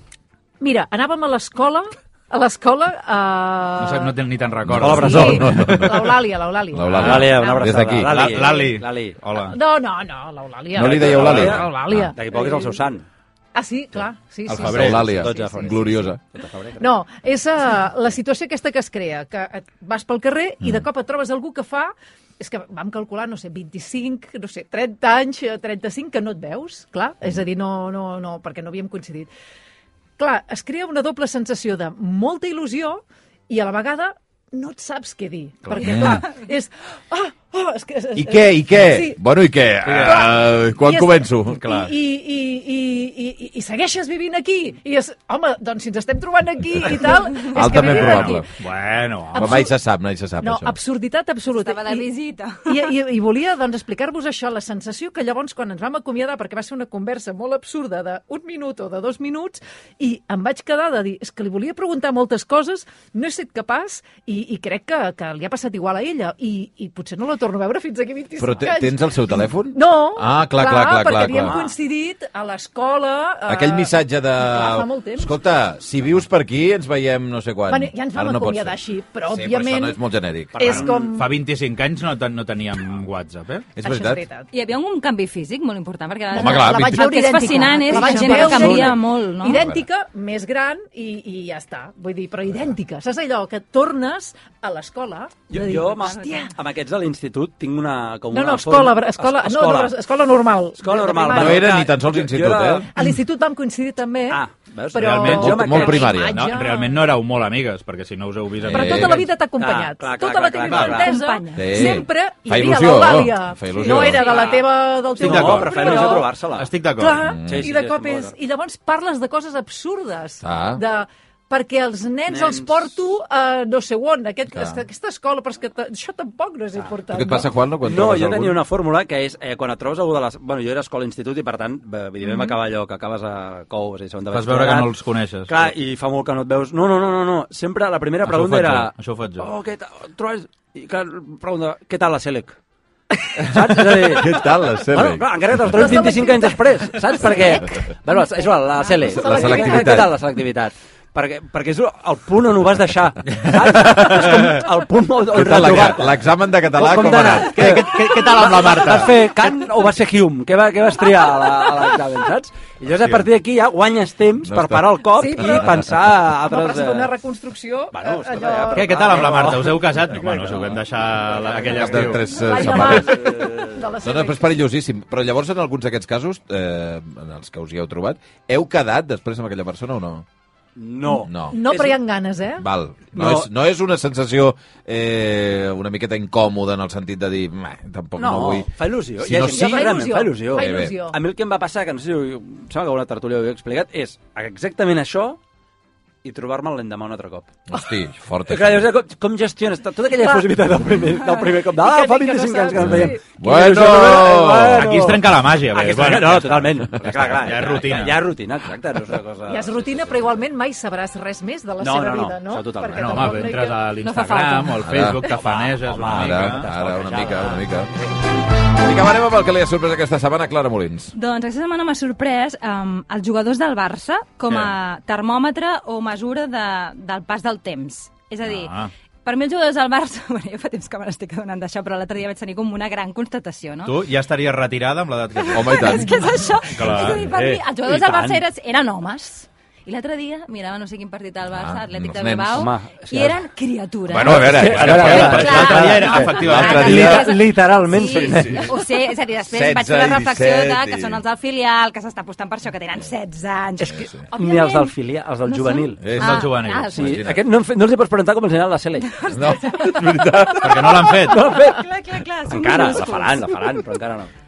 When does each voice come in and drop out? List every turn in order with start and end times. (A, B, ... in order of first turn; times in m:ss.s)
0:00.6-0:04.1 A
0:03.8-0:06.0 B
0:04.6-0:06.0 C
0:04.7-0:05.7 D
0:04.7-0:07.7 A
0:06.7-0:08.4 C
0:06.9-0:09.2 D
0:07.0-0:07.3 B
0:08.0-0:09.6 B
0:09.5-0:12.8 A
0:10.7-0:12.1 C
0:10.8-0:13.0 D
0:13.5-0:15.7 A
0:14.5-0:16.2 C
0:14.5-0:15.3 B
0:15.0-0:16.9 D
0:16.8-0:29.3 A
0:30.2-0:39.2 A
0:35.7-0:36.1 B
0:35.8-0:36.2 C
0:38.1-0:41.6 C
0:39.8-0:40.3 B
0:40.0-0:48.4 A
0:41.6-0:41.9 B
0:47.3-0:48.5 C
0:47.8-0:49.6 B
0:49.3-0:50.7 C
0:49.3-0:49.7 A
0:50.4-0:52.1 A
0:51.5-0:52.9 E
0:52.6-1:15.3 A
1:08.4-1:11.5 C
1:11.4-1:11.7 D
1:13.5-1:20.9 C
1:17.7-1:20.0 A
1:20.5-1:21.4 A
1:20.7-1:21.0 D
1:20.7-1:23.7 B
1:23.8-1:24.2 C
1:23.8-1:24.5 A
1:24.5-1:29.6 E
1:26.3-1:36.5 A
1:26.3-1:27.3 C
1:27.8-1:29.0 D
1:29.4-1:29.8 C
1:35.5-1:40.0 D
1:35.8-1:36.2 E
1:38.3-1:41.7 A
1:40.8-1:42.9 D
1:41.3-1:42.9 C
1:42.9-1:47.0 A
1:44.3-1:46.2 D
1:45.0-1:45.4 B
1:45.0-1:46.5 C
1:46.3-1:49.3 B
1:48.6-1:49.2 C
1:48.7-1:56.3 A
1:49.6-1:51.2 D
1:50.6-1:51.0 B
1:50.8-1:51.9 E
1:51.5-1:54.3 C
1:53.9-1:56.7 D
1:55.2-1:57.3 B
1:57.0-2:07.5 A
1:57.2-1:57.6 C
1:57.4-1:58.3 D
2:00.4-2:00.8 C
2:02.3-2:02.9 D
2:07.1-2:08.6 C
2:07.8-2:14.9 D
2:14.3-2:15.7 B
2:15.5-2:22.6 D
2:18.2-2:19.5 B
2:23.3-2:47.1 D
2:23.5-2:26.1 C
2:25.7-2:27.6 A
2:28.8-2:30.0 A
2:29.0-2:30.2 C
2:33.7-2:34.6 B
2:35.3-2:37.8 C
2:35.6-2:36.0 B
2:37.3-2:39.3 B
2:44.4-2:45.8 C
2:45.1-2:49.0 A
2:47.9-2:53.8 D
2:48.7-2:52.2 B
2:51.7-3:00.2 C
2:52.3-2:54.5 A
3:00.8-3:02.0 D
3:01.2-3:01.6 C
3:01.2-3:02.6 A
3:02.6-3:10.9 C
3:03.1-3:03.5 D
3:08.2-3:15.4 D
3:09.4-3:11.2 A
3:16.2-3:17.5 D
3:17.7-3:18.9 C
3:18.5-3:30.3 D
3:20.1-3:20.5 A
3:21.3-3:23.2 A
3:22.8-3:25.0 C
3:24.8-3:28.3 B
3:29.5-3:33.8 A
3:31.8-3:33.5 D
3:33.0-3:36.7 B
3:34.0-3:34.9 E
3:34.8-3:35.2 C
3:35.1-3:37.7 D
3:36.0-3:37.9 C
3:38.7-3:41.1 C
3:41.1-3:48.7 E
3:48.4-3:48.9 B
3:49.2-3:54.0 E
3:53.8-3:55.9 B
3:55.5-3:56.1 C
3:55.5-4:14.9 E
3:56.7-3:58.4 B
3:57.2-3:58.3 D
4:01.5-4:02.7 C
4:02.5-4:03.4 D
4:04.1-4:07.3 C
4:04.2-4:08.7 D
4:04.6-4:07.2 B
4:08.1-4:08.7 C
4:09.5-4:11.2 C
4:13.8-4:16.2 D
4:13.8-4:14.2 C
4:15.4-4:17.2 E
4:16.0-4:17.4 C
4:16.2-4:17.0 B
4:17.0-4:19.2 D
4:19.0-4:23.8 E
4:19.3-4:21.1 C
4:20.6-4:21.5 B
4:21.1-4:21.8 D
4:22.5-4:24.3 D